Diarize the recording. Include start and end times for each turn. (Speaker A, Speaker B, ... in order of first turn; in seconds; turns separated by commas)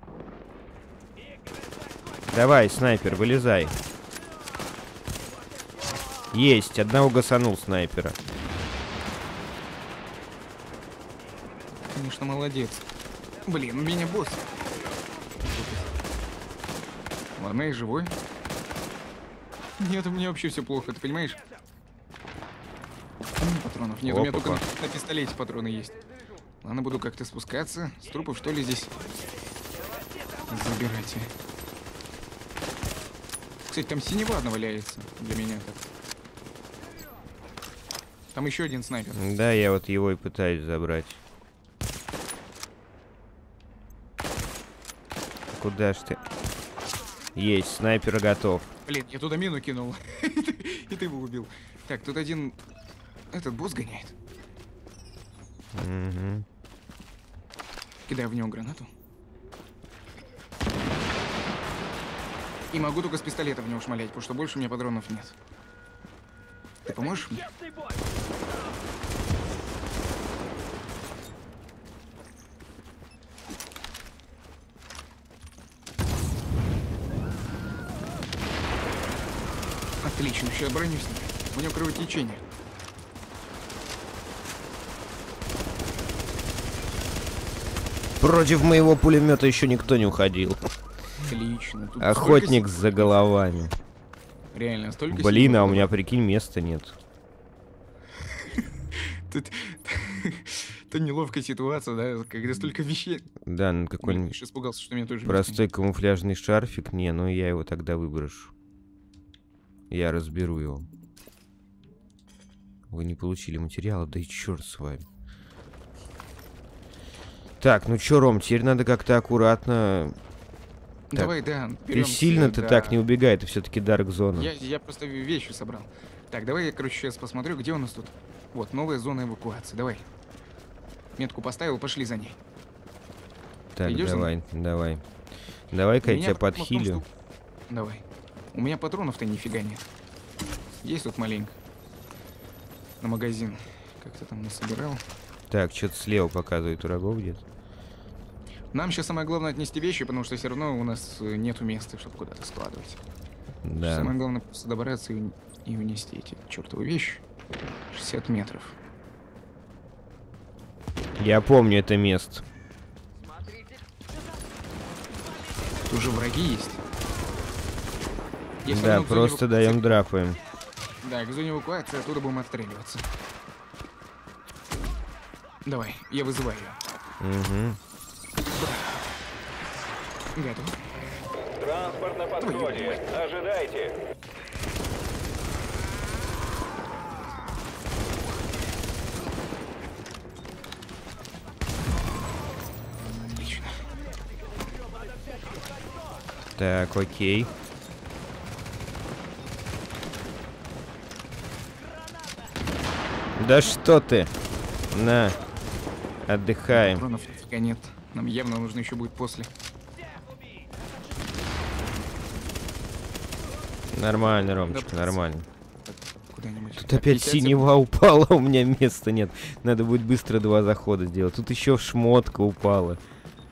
Speaker A: 2.3-3.7, Speaker A: 6.3-8.2, Speaker B: 11.9-12.8, Speaker B: 13.5-14.5, Speaker B: 15.4-15.9, Speaker B: 17.4-18.1, Speaker B: 19.8-21.4, Speaker B: 23.4-25.9, Speaker A: 24.1-24.6, Speaker B: 26.6-29.1, Speaker B: 30.5-31.3, Speaker B: 33.7-35.9, Speaker B: 38.3-39.2, Speaker A: 39.1-41.2, Speaker A: 45.5-46.2, Speaker A: 47.3-48.6, Speaker B: 48.9-52.6, Speaker B: 53.3-54.1, Speaker A: 55.7-56.5, Speaker B: 58.1-58.9, Speaker B: 62.7-65.3, Speaker B: 66.8-67.5, Speaker B: 80.0-82.4, Speaker A: 88.2-90.7, Speaker B: 91.2-93.1, Speaker A: 92.0-93.7, Speaker B: 94.5-95.9, Speaker A: 95.1-97.0, Speaker B: 98.3-103.3, Speaker A: 103.4-104.3, Speaker B: 104.0-105.6, Speaker A: 105.2-108.5, Speaker A: 109.9-110.9, Speaker A: 112.9-115.0, Speaker A: 117.6-120.2, Speaker B: 121.1-123.0, Speaker A: 121.9-124.5, Speaker B: 124.3-130.0, Speaker B: 131.2-132.4, Speaker A: 133.7-135.0, Speaker B: 133.8-134.3, Speaker A: 135.7-137.0, Speaker B: 136.0-137.1, Speaker B: 137.7-139.8, Speaker B: 140.8-141.6, Speaker B: 143.0-145.0, Speaker A: 145.5-147.4, Speaker B: 148.7-153.0, Speaker A: 153.6-154.1, Speaker B: 153.8-157.2, Speaker B: 157.9-158.8, Speaker A: 161.2-162.4, Speaker B: 165.8-166.8, Speaker B: 168.6-169.9, Speaker A: 168.7-170.4, Speaker B: 171.0-173.1, Speaker B: 175.6-176.8, Speaker A: 177.2-177.8, Speaker B: 178.5-179.1, Speaker B: 180.3-180.8, Speaker C: 181.4-183.9, Speaker B: 182.4-183.0, Speaker B: 193.3-193.8, Speaker A: 196.6-197.5, Speaker A: 203.3-204.3, Speaker A: 204.9-205.4, Speaker A: 206.3-207.0, Speaker B: 206.7-209.5, Speaker A: 213.9-215.4, Speaker B: 214.7-215.3, Speaker B: 215.9-217.7, Speaker A: 216.8-223.0